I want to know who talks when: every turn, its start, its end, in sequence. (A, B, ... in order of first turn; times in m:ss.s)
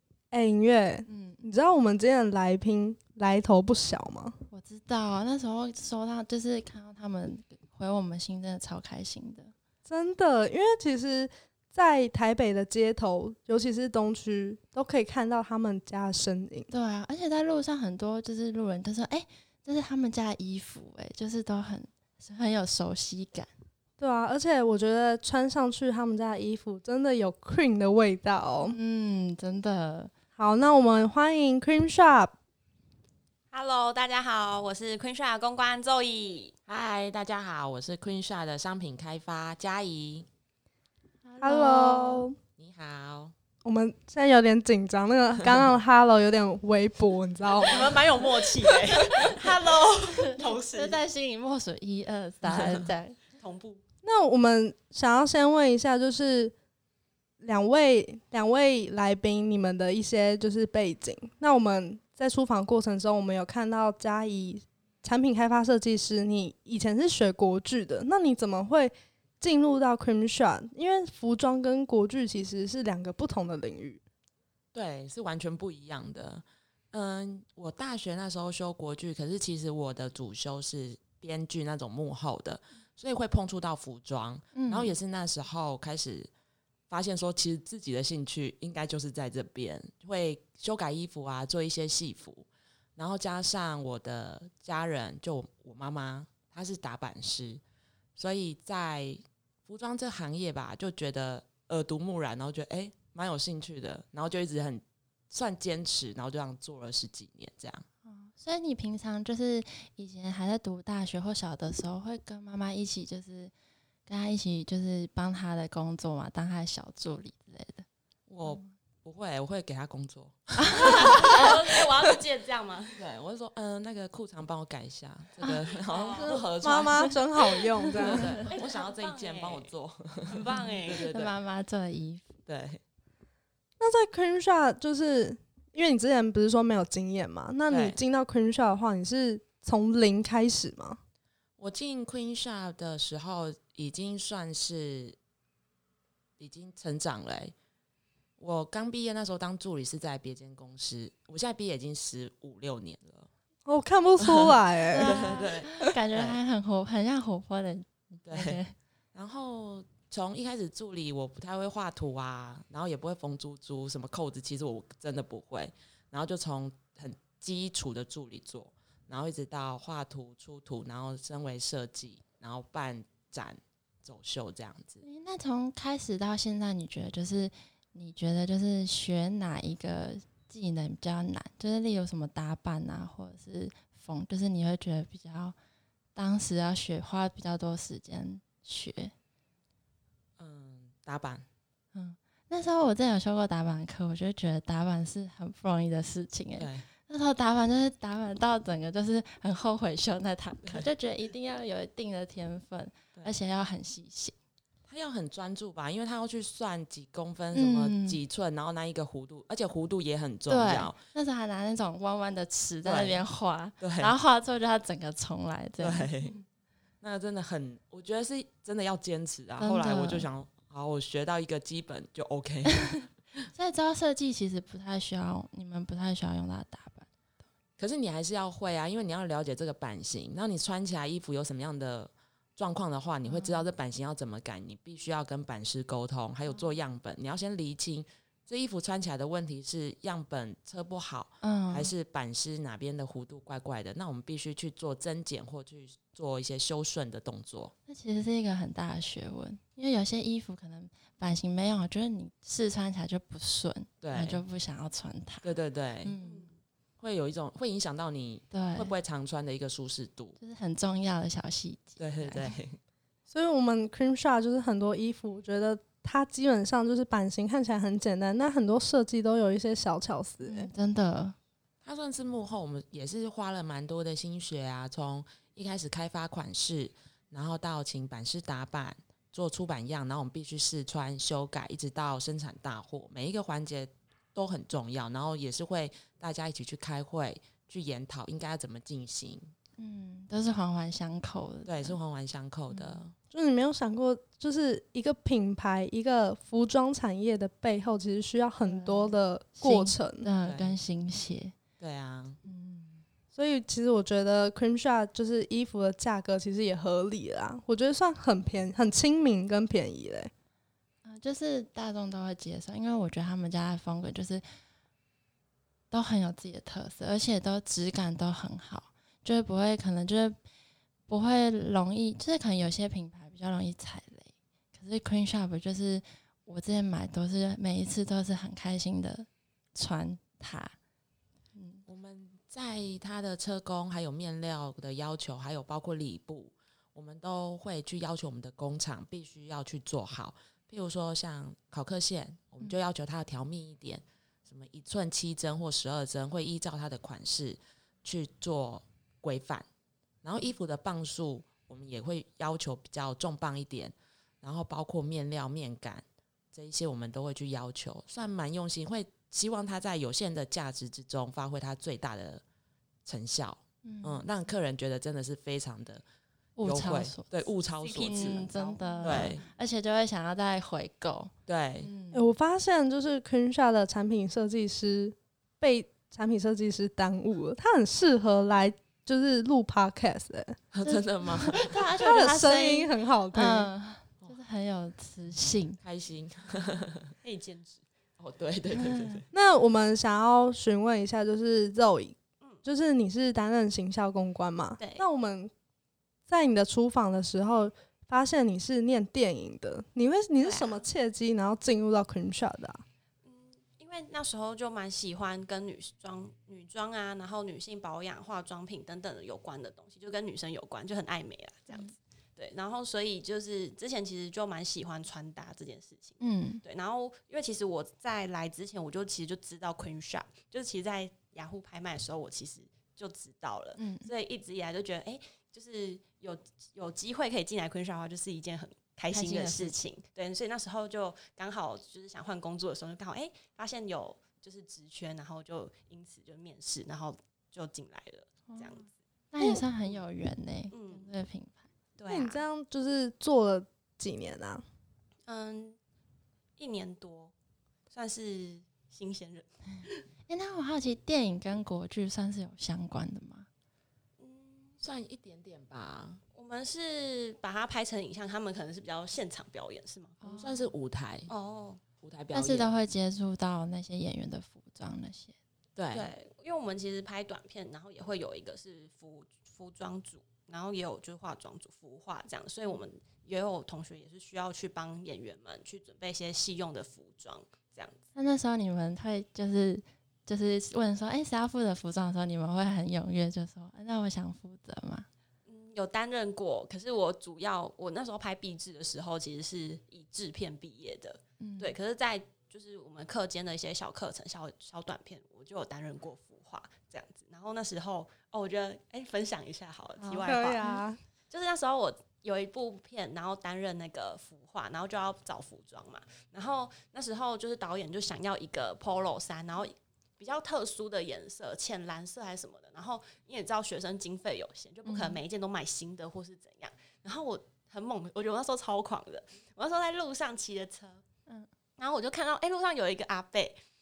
0:00.3-0:04.4 A
0:01.1-0:01.4 B
0:04.5-0:09.5 B
0:09.8-0:16.7 A
0:16.7-0:23.5 B
0:24.0-0:28.8 A
0:28.6-0:30.1 B
0:30.4-0:32.3 A
0:33.5-0:36.5 C
0:36.7-0:40.3 D
0:41.2-0:42.3 B
0:41.4-0:42.4 A
0:42.6-0:43.3 D
0:43.6-0:48.2 A
0:47.6-0:51.0 C
0:50.1-0:53.2 B
0:52.5-0:52.8 D
0:53.3-0:53.8 C
0:54.0-0:56.5 A
0:57.4-1:14.0 A
1:14.7-1:26.3 D
1:24.5-1:24.9 B
1:26.9-1:37.6 D
1:38.2-1:47.8 D
1:48.0-1:53.5 B
1:54.0-1:57.8 B
1:58.3-2:01.5 D
1:58.4-1:58.7 B
2:00.6-2:01.3 B
2:00.7-2:03.0 C
2:03.0-2:07.2 D
2:05.9-2:06.5 C
2:06.1-2:08.3 A
2:08.0-2:11.3 D
2:08.3-2:09.7 C
2:10.2-2:11.1 C
2:11.1-2:12.3 B
2:12.4-2:12.8 D
2:13.8-2:21.0 A
2:17.7-2:18.0 D
2:21.6-2:25.2 D
2:26.4-2:27.5 D
2:28.4-2:33.3 D
2:33.6-2:35.2 A
2:34.2-2:36.4 D
2:34.9-2:38.7 B
2:38.2-2:38.6 D
2:39.1-2:55.0 D
2:55.0-3:05.5 B
3:06.1-3:09.1 B
3:10.4-3:11.4 D
3:11.9-3:24.3 B
3:16.6-3:16.8 D
3:24.9-3:31.0 D
3:27.5-3:28.2 B
3:30.5-3:36.3 B
3:32.8-3:33.2 D
3:33.8-3:34.1 D
3:35.8-3:36.4 D
3:37.0-3:43.1 D
3:39.6-3:40.3 B
3:43.5-3:47.1 B
3:47.8-4:07.7 D
3:53.2-3:53.7 B
3:56.5-3:56.8 B
4:01.4-4:01.9 B
4:07.9-4:16.5 B
4:14.0-4:14.4 D
4:15.4-4:16.2 D
4:16.2-4:16.6 C
4:17.0-4:20.4 D
4:18.5-4:18.9 B
4:20.4-4:22.6 B
4:22.0-4:22.8 D
4:23.3-4:30.7 A
4:30.4-4:31.3 B
4:31.8-4:49.5 D
4:49.8-4:52.0 B
4:51.6-4:53.1 D
4:52.7-4:53.0 B
4:53.3-5:00.2 A
4:58.6-5:01.6 B
5:00.4-5:00.8 D
5:01.8-5:02.4 D
5:02.4-5:03.0 B
5:03.3-5:10.3 A
5:11.0-5:14.4 B
5:15.9-5:20.4 B
5:21.1-5:30.7 B
5:31.5-5:31.8 B
5:31.9-5:49.6 D
5:50.2-6:02.4 D
6:03.0-6:06.0 D
6:03.8-6:04.2 B
6:06.6-6:07.3 B
6:06.6-6:08.5 D
6:07.8-6:09.3 C
6:08.0-6:12.2 B
6:09.0-6:09.4 D
6:11.5-6:11.9 D
6:12.1-6:20.6 A
6:20.7-6:21.8 D
6:20.8-6:25.8 B
6:22.0-6:23.7 A
6:25.8-6:27.1 D
6:27.2-6:27.8 C
6:28.2-6:29.3 D
6:28.8-6:29.2 B
6:29.3-6:35.5 A
6:34.8-6:35.0 C
6:36.3-6:42.8 A
6:40.4-6:40.9 C
6:43.2-7:18.9 C
6:56.2-6:56.6 B
7:03.8-7:04.1 B
7:09.1-7:09.8 B
7:18.5-7:18.8 B
7:19.3-7:21.7 B
7:19.4-7:19.6 A
7:20.7-7:21.1 C
7:22.0-7:22.4 C
7:22.1-7:24.6 A
7:25.3-7:25.8 C
7:26.6-7:27.3 C
7:27.9-7:30.0 C
7:30.3-7:33.5 B
7:34.2-7:34.8 C
7:34.8-7:36.2 D
7:36.3-7:40.2 C
7:40.2-7:40.7 B
7:40.2-7:41.3 D
7:41.3-7:41.8 C
7:42.0-7:42.7 D
7:42.3-7:45.3 B
7:45.8-7:46.1 D
7:45.9-7:58.0 C
7:58.1-8:05.1 B
8:05.5-8:20.6 C
8:11.4-8:11.7 B
8:20.0-8:20.8 B
8:20.2-8:21.0 A
8:21.3-8:41.0 C
8:34.8-8:35.2 B
8:41.8-8:43.6 C